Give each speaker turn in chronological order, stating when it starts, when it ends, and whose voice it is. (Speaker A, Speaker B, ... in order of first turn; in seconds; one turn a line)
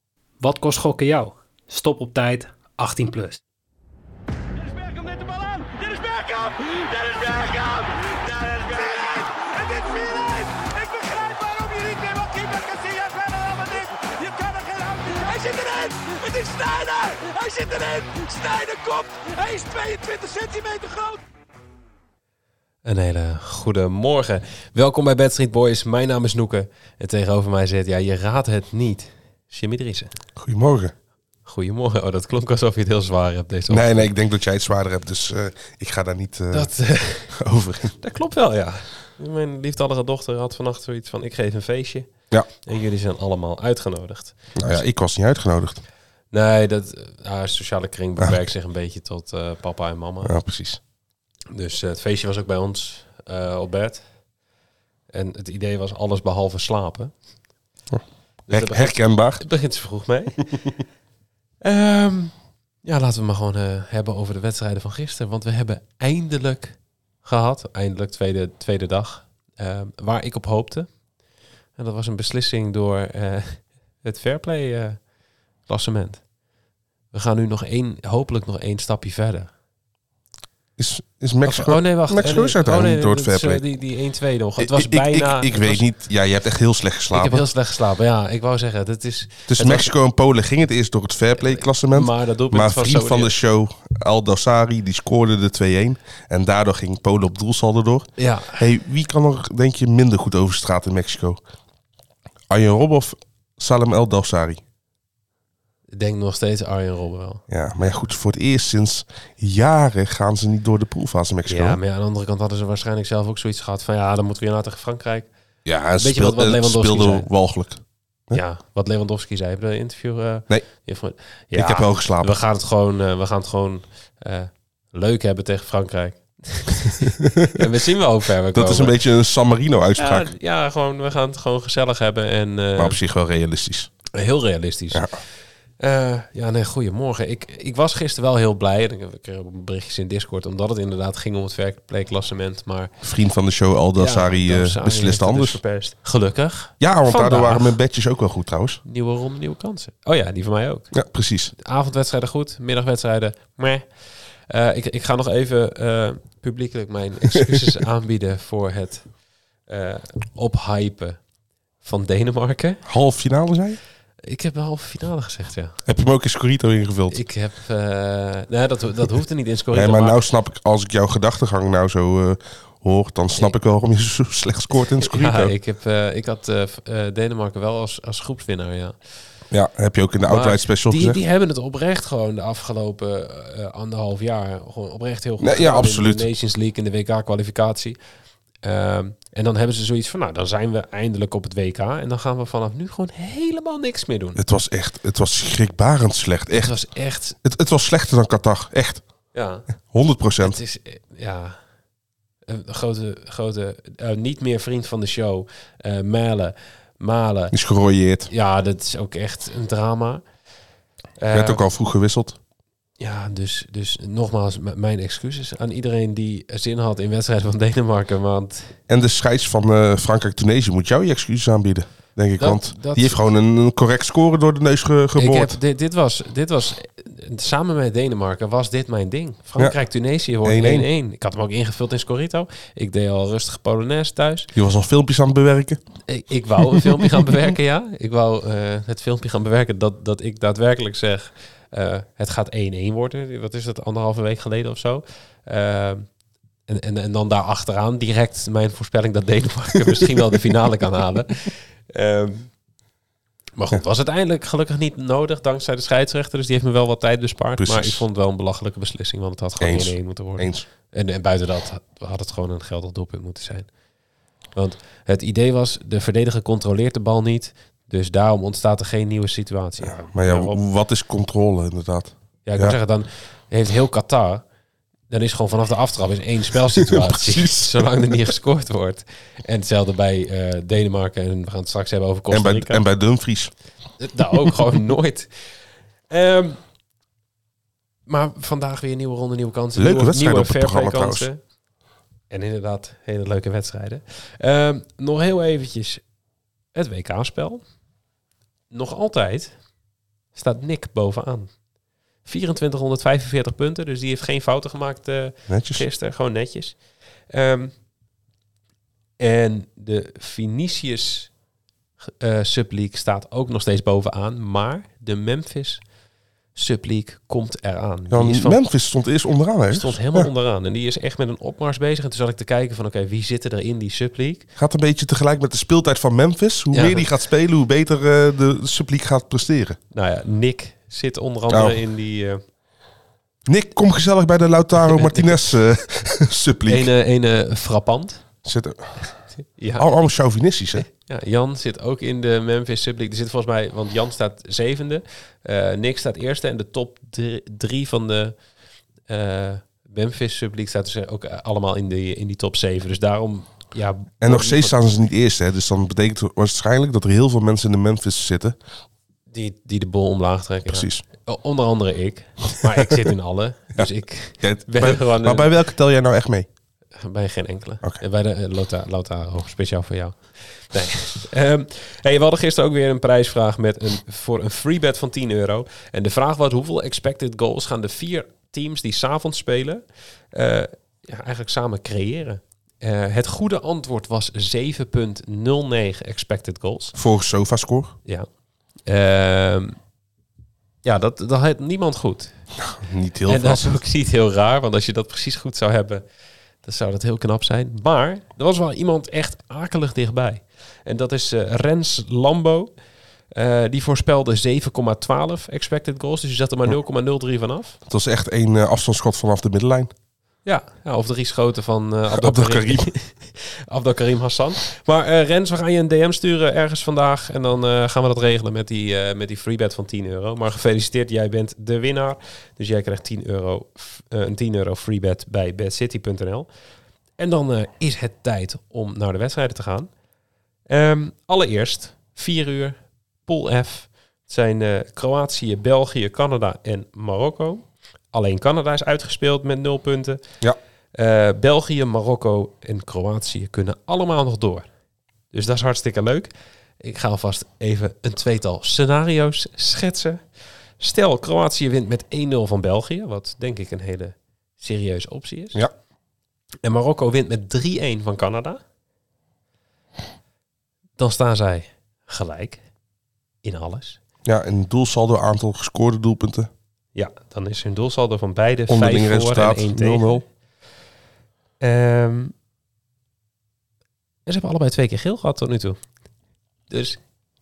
Speaker A: 0.4-3.4
Speaker B: 4.5-21.1
Speaker C: 22.8-30.1
Speaker D: 30.4-30.9
Speaker C: 31.4-34.1
Speaker D: 33.7-36.7
Speaker C: 36.5-37.4
Speaker D: 37.3-37.9
Speaker C: 38.0-42.1
Speaker C: 42.6-44.8
Speaker D: 44.6-45.8
Speaker C: 46.3-50.3
Speaker D: 50.2-50.8
Speaker C: 51.5-54.0
Speaker C: 55.1-57.1
Speaker D: 57.9-59.4
Speaker C: 58.5-60.7
Speaker C: 61.6-70.9
Speaker C: 71.8-75.0
Speaker C: 75.7-76.2
Speaker C: 77.1-79.5
Speaker D: 80.8-83.6
Speaker C: 81.4-85.9
Speaker D: 84.6-87.4
Speaker C: 87.1-89.9
Speaker D: 89.5-101.4
Speaker C: 91.9-93.3
Speaker C: 98.2-98.6
Speaker D: 102.5-104.6
Speaker C: 105.9-107.4
Speaker D: 107.5-111.8
Speaker C: 111.5-115.3
Speaker D: 115.7-118.4
Speaker C: 116.0-117.3
Speaker C: 118.3-129.0
Speaker D: 121.5-122.3
Speaker D: 127.2-127.6
Speaker D: 128.5-130.3
Speaker C: 129.9-133.0
Speaker D: 132.8-133.9
Speaker C: 134.1-135.2
Speaker C: 135.8-142.9
Speaker D: 143.0-145.6
Speaker C: 143.9-147.8
Speaker D: 146.8-148.8
Speaker C: 148.8-150.9
Speaker D: 150.9-151.5
Speaker C: 151.6-153.9
Speaker C: 154.5-159.1
Speaker C: 159.7-161.2
Speaker C: 161.8-162.8
Speaker D: 162.8-163.8
Speaker C: 164.2-165.8
Speaker D: 165.8-167.2
Speaker C: 167.1-170.2
Speaker D: 169.7-175.5
Speaker C: 175.0-178.9
Speaker D: 179.5-181.2
Speaker C: 180.2-188.0
Speaker D: 185.4-186.3
Speaker C: 188.6-194.4
Speaker D: 194.3-196.7
Speaker C: 196.5-197.4
Speaker D: 197.4-199.0
Speaker C: 199.3-199.7
Speaker D: 199.9-200.6
Speaker C: 200.4-201.6
Speaker C: 202.4-207.5
Speaker D: 207.5-208.3
Speaker C: 208.3-210.2
Speaker C: 211.2-211.6
Speaker D: 211.3-212.4
Speaker C: 213.0-218.8
Speaker D: 218.9-225.6
Speaker C: 222.4-223.2
Speaker C: 225.2-234.5
Speaker D: 230.4-230.9
Speaker D: 234.5-235.8
Speaker C: 236.1-246.1
Speaker C: 246.7-252.5
Speaker C: 253.6-263.7
Speaker D: 257.6-258.0
Speaker D: 259.6-260.6
Speaker C: 264.6-270.6
Speaker D: 269.8-272.8
Speaker C: 272.4-274.4
Speaker C: 275.1-282.8
Speaker D: 276.8-277.9
Speaker D: 282.3-283.5
Speaker C: 284.0-285.3
Speaker C: 286.1-286.6
Speaker C: 288.1-291.4
Speaker D: 289.8-291.3
Speaker C: 292.3-296.0
Speaker C: 296.7-297.6
Speaker C: 298.7-299.5
Speaker C: 300.3-301.5
Speaker C: 302.2-306.8
Speaker D: 305.5-305.8
Speaker C: 307.3-307.7
Speaker C: 309.2-311.3
Speaker C: 312.0-315.8
Speaker C: 316.5-318.6
Speaker D: 318.1-320.3
Speaker C: 319.7-324.4
Speaker D: 324.6-329.8
Speaker C: 326.7-327.1
Speaker C: 329.9-332.4
Speaker D: 331.5-331.8
Speaker D: 333.4-336.9
Speaker C: 334.8-335.4
Speaker C: 336.7-338.2
Speaker D: 338.4-338.9
Speaker C: 339.4-339.9
Speaker D: 339.8-340.9
Speaker C: 340.8-348.3
Speaker C: 349.1-354.8
Speaker D: 354.2-358.6
Speaker C: 359.3-365.5
Speaker D: 360.7-361.0
Speaker D: 364.4-366.5
Speaker C: 367.0-386.9
Speaker D: 386.9-387.9
Speaker C: 388.9-389.8
Speaker C: 390.8-392.4
Speaker D: 392.6-393.8
Speaker C: 393.3-396.0
Speaker C: 396.6-402.7
Speaker C: 403.3-407.8
Speaker D: 407.9-409.9
Speaker C: 410.4-426.5
Speaker D: 412.1-412.9
Speaker C: 427.2-429.9
Speaker C: 430.7-440.2
Speaker C: 440.9-444.7
Speaker C: 445.3-446.3
Speaker C: 446.8-450.2
Speaker C: 450.8-455.6
Speaker C: 456.6-458.6
Speaker C: 461.0-462.6
Speaker C: 463.4-464.0
Speaker D: 464.2-466.5
Speaker C: 466.9-470.2
Speaker D: 468.7-470.2
Speaker C: 471.6-472.3
Speaker C: 474.2-475.8
Speaker C: 476.7-477.0